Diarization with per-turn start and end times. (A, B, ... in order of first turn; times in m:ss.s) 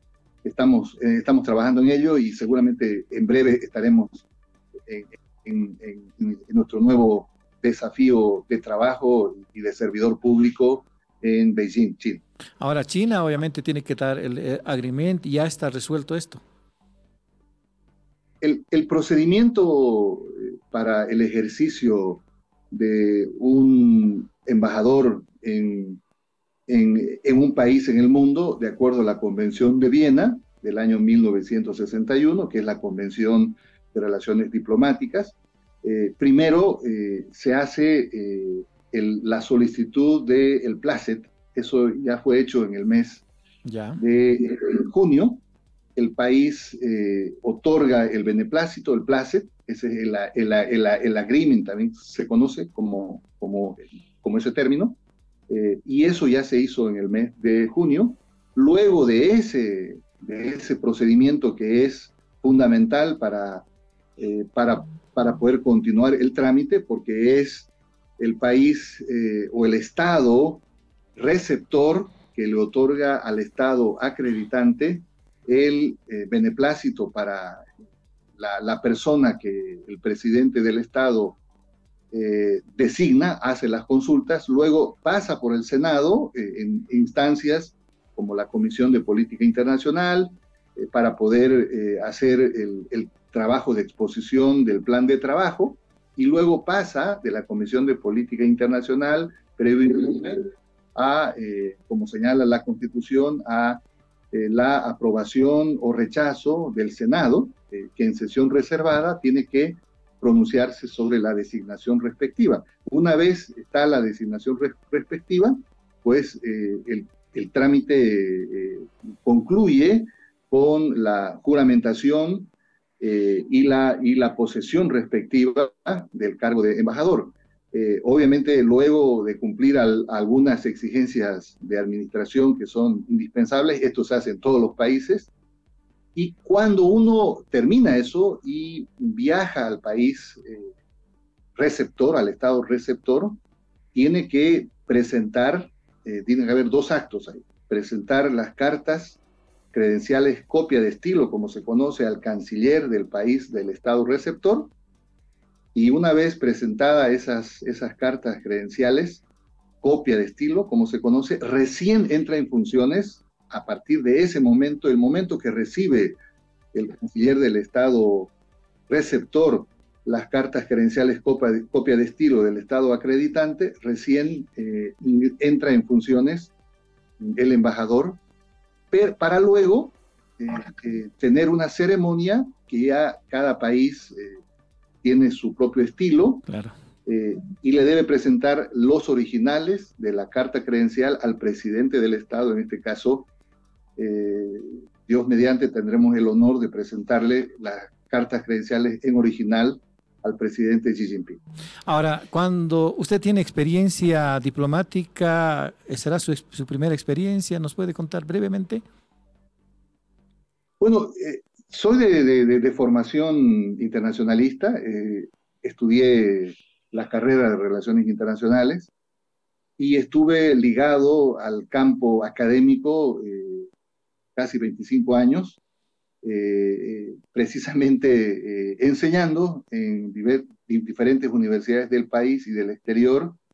0:00.4-0:04.3 A
0:04.8-0:12.2 A
0:12.6-0:16.4 B
0:18.4-0:26.0 A
0:26.7-0:43.2 A
0:43.6-0:44.0 B
0:44.0-0:45.4 A
0:46.0-0:55.0 A
0:55.5-1:03.6 A
1:04.2-1:10.6 A
1:11.2-1:17.6 A
1:18.4-1:21.4 A
1:22.1-2:15.3 A
2:16.1-2:20.7 A
2:21.6-2:23.4 A
2:23.9-2:29.2 A
2:29.7-2:34.7 A
2:35.7-2:39.2 A
2:39.8-2:46.2 A
2:46.7-2:48.3 A
2:48.9-2:56.5 A
2:57.2-2:58.2 A
2:58.9-3:04.4 A
3:05.0-3:06.4 A
3:06.5-3:06.7 B
3:07.0-3:13.3 A
3:14.0-3:21.4 A
3:21.8-3:28.8 B
3:30.8-3:38.9 A
3:39.8-3:43.7 A
3:44.4-3:45.6 A
3:46.2-3:53.4 A